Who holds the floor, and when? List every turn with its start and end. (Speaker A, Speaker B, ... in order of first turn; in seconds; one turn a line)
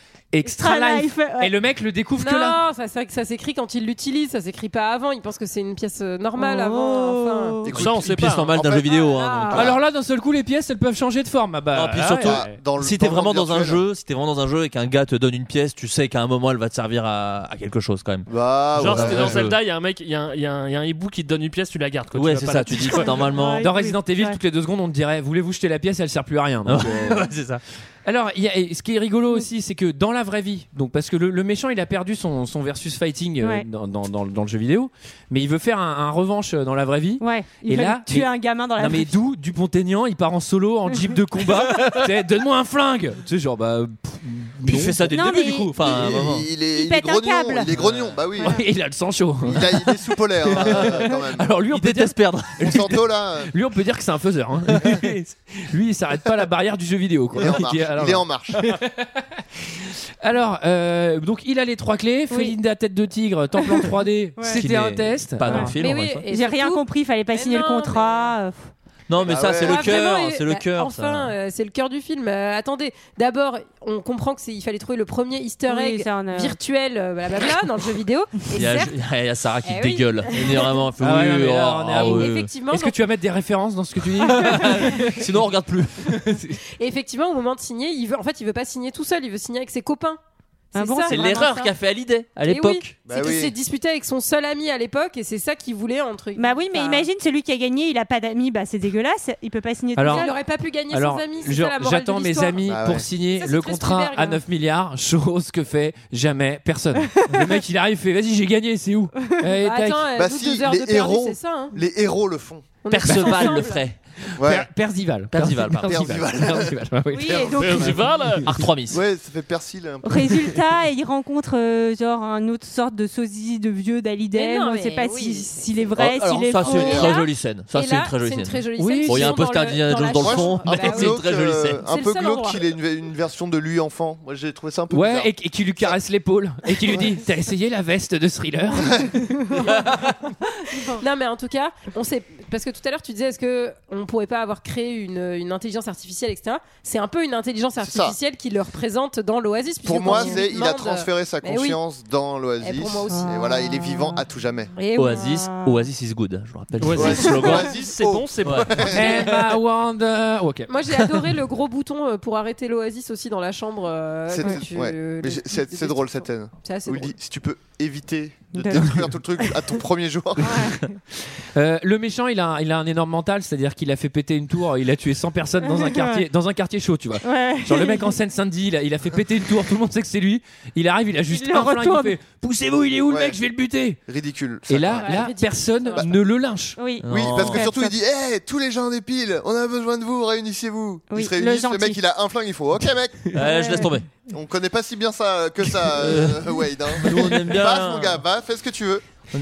Speaker A: 0.3-2.6
Speaker B: 0.4-1.5
Speaker C: 2.2-7.6
Speaker B: 6.4-7.7
Speaker D: 7.6-9.0
Speaker E: 7.7-8.5
Speaker F: 7.8-9.7
Speaker C: 8.8-9.7
Speaker D: 9.5-9.8
Speaker A: 9.5-12.5
Speaker F: 11.7-19.6
Speaker D: 12.2-13.8
Speaker D: 18.3-19.5
Speaker E: 18.8-23.3
Speaker F: 22.1-23.7
Speaker B: 22.9-24.4
Speaker A: 23.6-27.3
Speaker F: 26.6-27.6
Speaker A: 28.1-45.2
Speaker B: 33.4-33.7
Speaker B: 37.2-39.1
Speaker F: 44.7-46.5
Speaker B: 45.1-46.1
Speaker D: 45.8-48.6
Speaker B: 46.6-47.7
Speaker F: 47.7-48.2
Speaker A: 48.4-52.2
Speaker D: 49.5-51.5
Speaker F: 51.7-52.9
Speaker D: 52.6-53.5
Speaker A: 53.5-59.2
Speaker D: 57.4-58.6
Speaker A: 59.8-65.8
Speaker B: 62.3-62.6
Speaker B: 63.6-64.6
Speaker F: 64.6-66.3
Speaker B: 65.5-65.8
Speaker C: 65.8-68.3
Speaker B: 66.3-68.7
Speaker F: 69.1-71.3
Speaker D: 69.2-70.0
Speaker C: 69.5-79.0
Speaker B: 75.7-76.6
Speaker F: 78.5-82.5
Speaker C: 79.6-80.8
Speaker A: 81.0-85.5
Speaker C: 82.0-83.0
Speaker F: 84.2-86.0
Speaker A: 86.0-86.6
Speaker C: 86.8-90.2
Speaker C: 90.7-91.2
Speaker B: 90.7-91.7
Speaker F: 91.1-93.0
Speaker C: 92.5-97.1
Speaker D: 93.1-93.5
Speaker B: 96.4-100.4
Speaker A: 100.0-100.3
Speaker C: 100.1-102.8
Speaker A: 100.9-110.1
Speaker D: 102.6-103.1
Speaker C: 103.3-104.4
Speaker B: 107.1-107.6
Speaker C: 109.6-111.8
Speaker D: 110.2-112.7
Speaker C: 112.8-113.8
Speaker F: 112.9-114.0
Speaker D: 114.4-114.7
Speaker A: 114.4-118.7
Speaker F: 115.3-116.2
Speaker D: 115.9-116.7
Speaker B: 117.1-118.0
Speaker E: 117.6-118.5
Speaker F: 118.4-119.0
Speaker D: 118.9-120.6
Speaker B: 120.0-127.2
Speaker C: 124.3-125.6
Speaker F: 126.0-131.8
Speaker C: 126.6-132.6
Speaker A: 128.8-129.4
Speaker D: 130.2-136.0
Speaker A: 134.9-139.5
Speaker D: 136.9-137.2
Speaker D: 138.8-139.1
Speaker C: 141.0-151.8
Speaker D: 147.8-148.2
Speaker D: 149.8-154.7
Speaker B: 150.1-150.4
Speaker C: 152.6-153.4
Speaker B: 153.1-154.2
Speaker C: 154.8-155.3
Speaker F: 154.9-157.7
Speaker B: 155.1-155.9
Speaker E: 156.8-159.3
Speaker D: 156.9-159.3
Speaker F: 158.4-158.7
Speaker A: 158.9-160.7
Speaker C: 160.7-167.1
Speaker D: 164.3-170.7
Speaker B: 168.5-169.7
Speaker B: 170.4-170.9
Speaker A: 171.6-184.0
Speaker B: 175.6-176.3
Speaker B: 177.2-178.2
Speaker B: 181.3-182.2
Speaker D: 183.1-183.4
Speaker D: 184.1-185.3
Speaker A: 184.7-186.8
Speaker C: 185.0-186.1
Speaker B: 186.8-187.9
Speaker F: 187.0-187.7
Speaker D: 187.1-193.3
Speaker B: 191.1-192.0
Speaker F: 193.3-194.1
Speaker B: 193.4-193.9
Speaker D: 194.3-199.0
Speaker F: 195.8-198.2